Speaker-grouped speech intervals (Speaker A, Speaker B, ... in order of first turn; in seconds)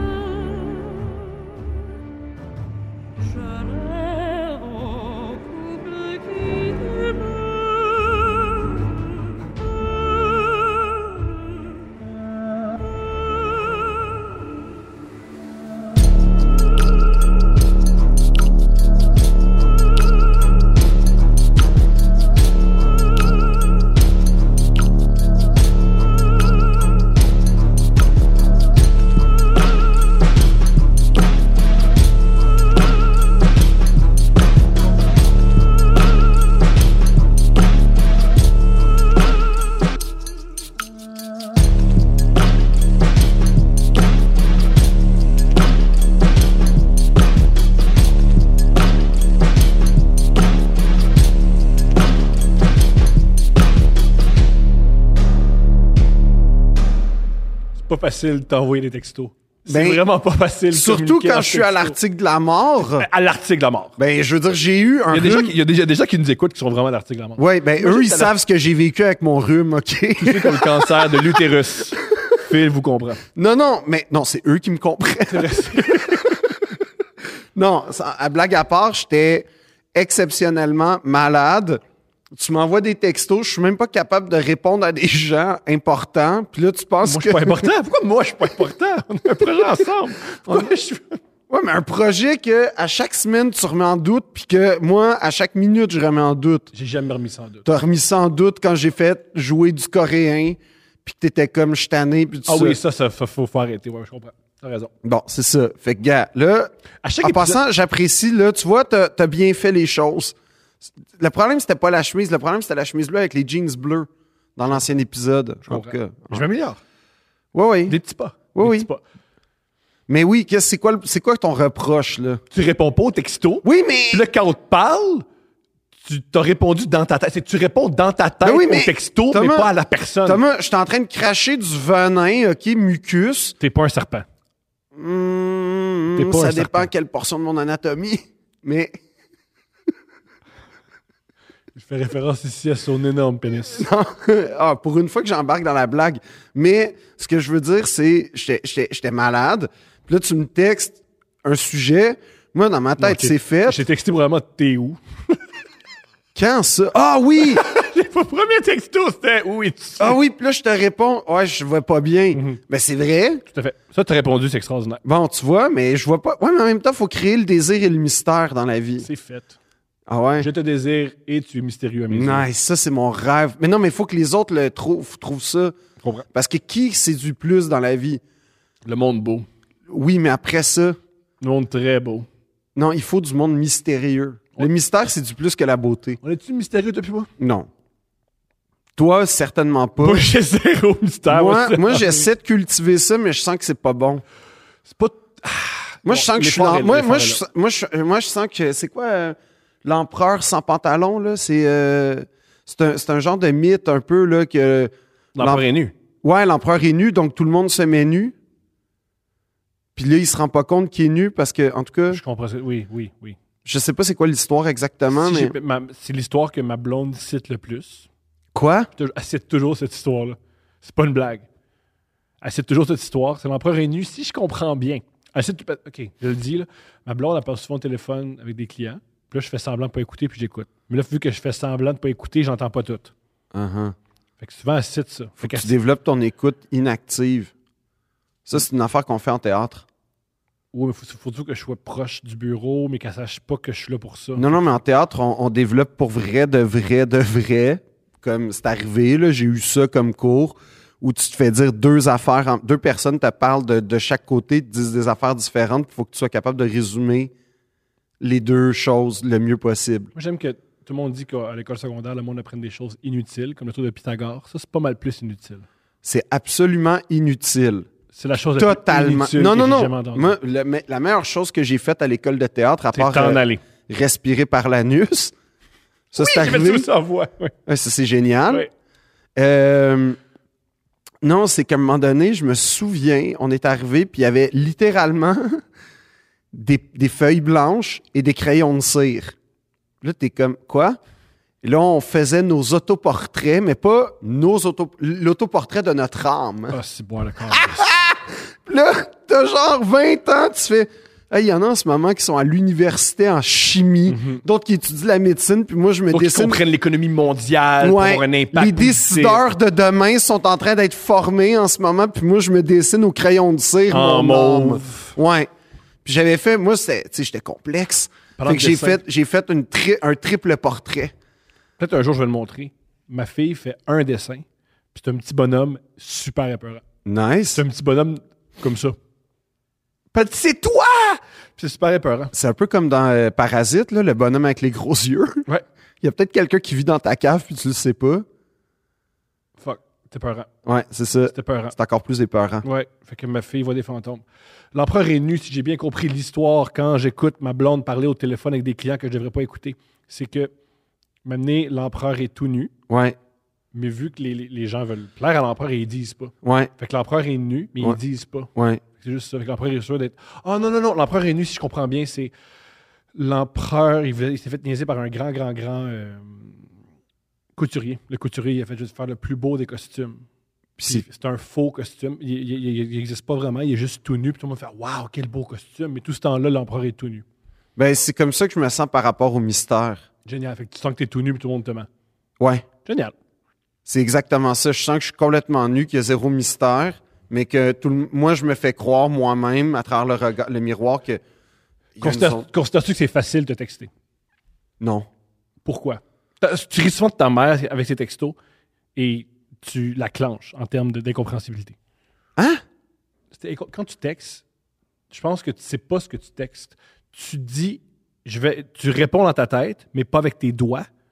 Speaker A: 0.4-0.9, 4.1-4.7, 57.8-62.0, 62.9-64.0, 65.1-68.3, 70.2-73.2, 75.3-76.4, 87.0-91.2, 96.7-97.7, 102.5-104.9, 107.0-107.6, 115.7-116.8, 117.9-119.0, 122.5-125.2, 126.0-130.4, 133.6-134.2, 136.1-136.9, 141.7-143.9, 153.0-155.0, 157.4-160.2, 162.3-162.6, 163.4-165.0, 169.0-169.6, 170.4-172.4, 176.0-176.2, 178.8-179.5, 181.4-182.3, 186.2-187.3, 190.0-192.3, 194.9-197.4, 205.3-205.9, 212.1-213.4, 215.1-218.1, 218.9-221.4, 222.4-233.1, 234.4-235.7, 240.7-244.8, 260.1-265.7, 268.1-270.3, 272.9-273.6, 276.1-277.5, 296.7-297.9, 304.1-304.4, 306.1-309.4, 313.9-315.1, 318.4-319.0, 321.8-326.8, 327.5-328.9, 330.1-332.3, 339.6-340.5, 341.3-341.7, 342.6-350.5, 351.2-352.7, 353.7-362.3, 363.1-366.6, 367.6-370.2, 370.8-377.2, 380.2-381.9, 382.8-383.1, 392.0-393.9, 395.6-398.4, 398.9-401.8, 403.3-404.4, 405.1-410.9
Speaker B: 59.7-60.0, 60.7-63.0, 64.0-65.5, 67.4-71.4, 73.3-76.5, 77.5-81.8, 82.3-87.7, 91.5-96.7, 97.7-102.8, 105.0-110.3, 111.2-116.4, 117.5-118.0, 118.5-118.9, 120.1-122.4, 123.6-124.2, 128.4-129.7, 130.2-133.5, 134.9-138.9, 143.7-153.8, 156.3-157.6, 160.0-163.4, 165.0-169.1, 170.1-170.5, 172.1-175.8, 176.3-178.2, 179.9-181.0, 182.8-186.2, 187.4-187.7, 188.9-190.2, 191.3-194.2, 196.0-205.6, 206.2-208.3, 209.9-212.2, 213.6-215.5, 218.5-218.9, 233.5-233.9, 235.4-237.5, 238.4-239.8, 244.3-257.3, 258.2-260.1, 266.0-267.9, 268.6-275.3, 276.1-276.9, 277.7-278.6, 279.4-280.2, 281.2-285.6, 286.5-289.3, 290.0-291.0, 291.6-296.8, 297.5-306.6, 307.8-315.5, 316.0-321.1, 327.0-327.6, 332.3-335.4, 336.0-338.2, 340.6-342.6, 352.9-353.1, 356.4-356.7, 358.5-358.8, 370.8-371.0, 377.8-380.0, 382.4-382.6, 383.9-391.2, 392.0-392.4, 394.8-395.1, 402.4-402.6